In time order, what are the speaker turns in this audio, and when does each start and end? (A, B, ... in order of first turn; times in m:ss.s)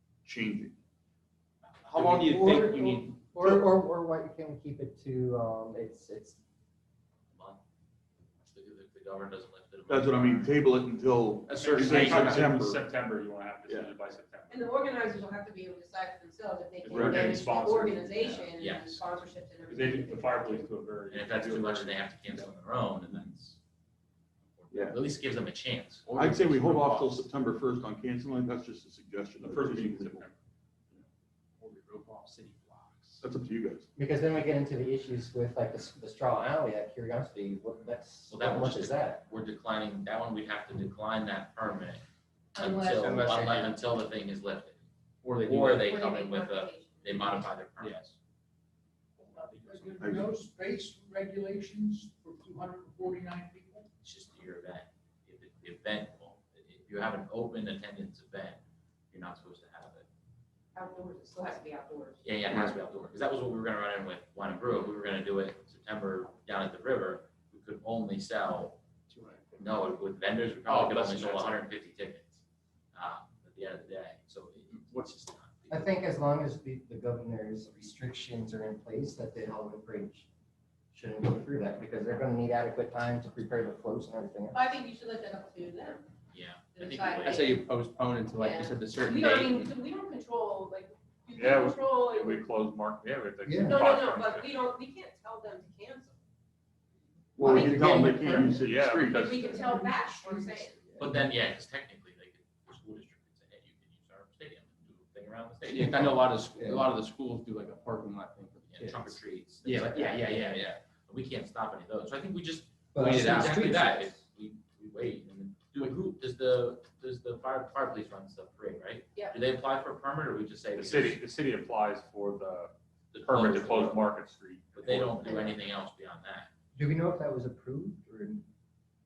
0:00.2-0:00.7 A
0:01.6-0:02.2 B
0:01.9-0:03.3 C
0:02.2-0:06.4 D
0:07.3-0:07.6 B
0:08.4-0:10.5 B
0:09.9-0:12.9 A
0:11.5-0:12.2 C
0:11.5-0:14.8 E
0:14.5-0:20.7 F
0:16.8-0:18.5 E
0:16.9-0:17.3 A
0:18.6-0:19.0 B
0:19.7-0:22.5 E
0:21.1-0:23.6 B
0:24.5-0:26.0 B
0:24.7-0:25.0 A
0:26.0-0:27.2 C
0:26.2-0:30.3 A
0:29.4-0:30.3 E
0:31.6-0:33.2 C
0:33.2-0:33.9 A
0:34.0-0:39.2 D
0:38.3-0:42.0 B
0:42.6-0:43.1 F
0:42.6-0:44.8 B
0:43.0-0:43.7 C
0:45.2-0:45.9 C
0:45.4-0:48.1 B
0:45.7-0:47.4 F
0:47.8-0:48.1 C
0:49.2-0:50.0 C
0:49.7-0:53.9 G
0:50.0-0:50.3 A
0:54.0-0:58.6 B
0:59.1-1:00.1 B
1:00.7-1:02.2 F
1:02.2-1:08.8 B
1:09.1-1:09.6 C
1:09.6-1:12.4 B
1:10.6-1:11.6 C
1:12.9-1:15.9 B
1:15.7-1:20.3 D
1:20.9-1:24.7 D
1:24.5-1:26.0 F
1:26.3-1:27.5 B
1:26.7-1:27.6 F
1:27.2-1:29.7 C
1:28.3-1:32.5 F
1:31.4-1:34.5 E
1:33.4-1:33.8 D
1:33.7-1:36.2 F
1:37.4-1:39.3 A
1:37.4-1:38.7 D
1:37.4-1:37.9 F
1:38.5-1:39.8 E
1:39.1-1:40.9 F
1:39.5-1:41.2 D
1:41.0-1:46.3 B
1:45.6-1:50.8 C
1:46.6-1:46.9 D
1:48.6-2:01.2 B
1:52.9-1:54.1 D
1:53.0-1:54.0 C
2:00.7-2:05.5 E
2:03.1-2:04.1 B
2:04.7-2:06.5 B
2:06.8-2:08.4 D